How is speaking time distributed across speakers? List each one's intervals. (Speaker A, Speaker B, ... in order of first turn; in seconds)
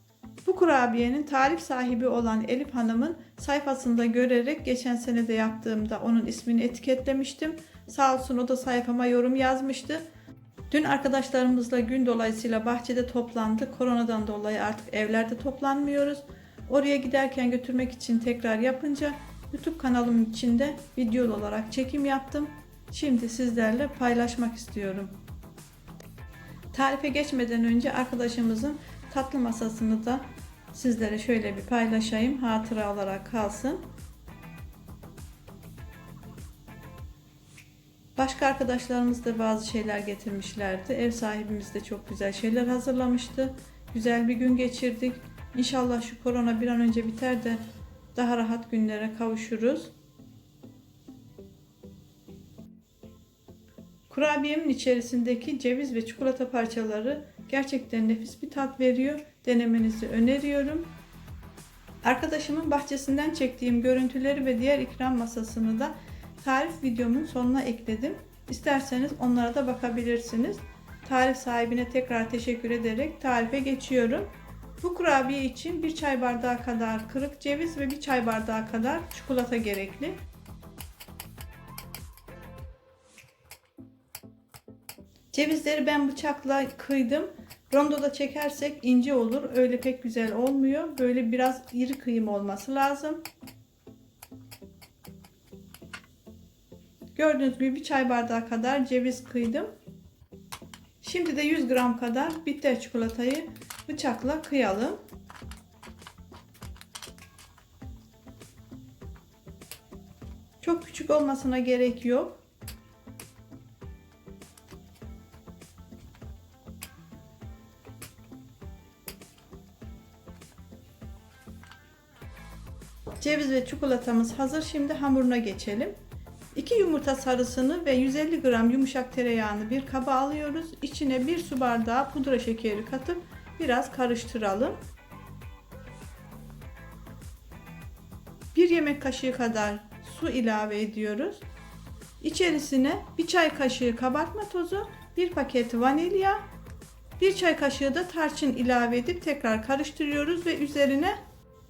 Speaker A: 0.4-10.0, 10.7-25.2, 26.7-33.9, 38.2-47.6, 48.1-49.9, 54.1-60.9, 62.0-80.2, 85.3-93.2, 97.1-99.7, 101.0-105.0, 110.6-112.4, 123.2-126.0, 126.5-134.8, 138.5-141.4, 142.2-146.4, 147.2-151.2